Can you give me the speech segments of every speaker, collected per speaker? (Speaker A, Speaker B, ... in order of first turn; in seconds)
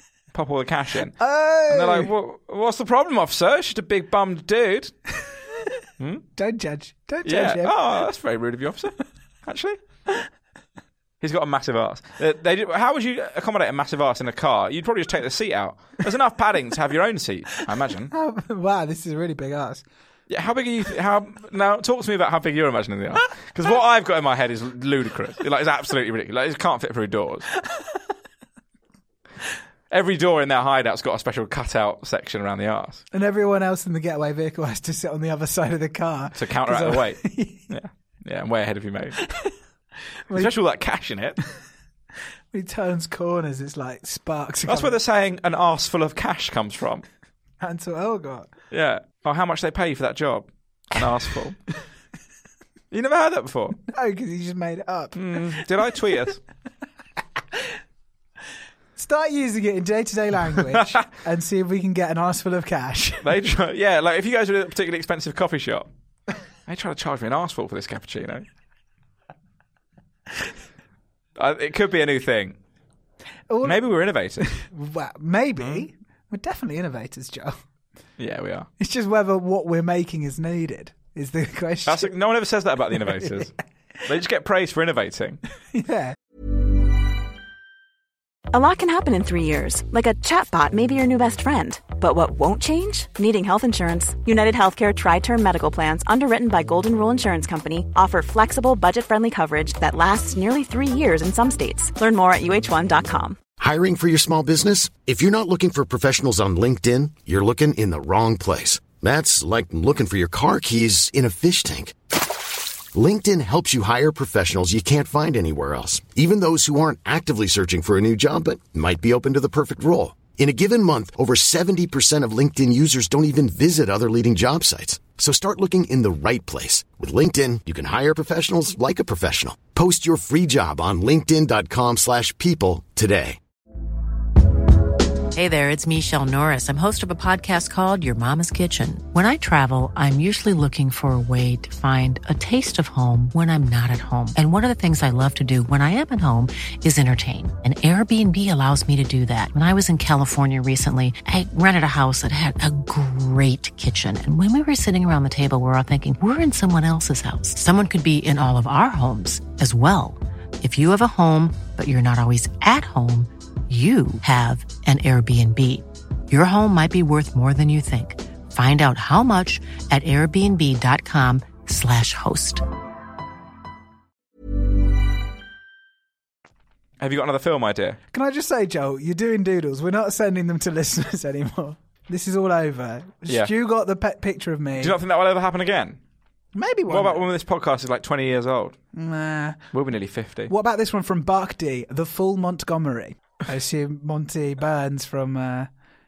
Speaker A: 0.3-5.0, 6.0-6.3, 7.2-9.8, 11.2-18.1, 20.3-27.5, 29.9-33.0, 36.4-39.2, 40.3-41.4, 44.7-47.0, 48.7-51.6, 52.9-53.8, 55.1-56.4, 63.2-65.9, 66.7-68.5, 71.4-72.6, 73.6-74.6, 75.6-75.8, 78.2-78.7, 81.9-85.4, 177.0-178.0, 183.3-183.5, 184.8-186.0, 186.9-188.8, 189.7-190.5
Speaker B: 1.2-2.1, 6.4-7.8, 18.1-19.8, 33.1-37.7, 42.5-45.0, 47.6-48.5, 53.9-55.9, 59.0-63.3, 73.5-73.8, 74.5-77.6, 78.8-82.1, 85.7-86.2, 178.1-184.9, 186.6-187.2, 188.9-189.7, 190.5-195.7
Speaker C: 88.5-103.4
Speaker D: 103.6-112.0, 112.9-133.4
Speaker E: 135.3-172.6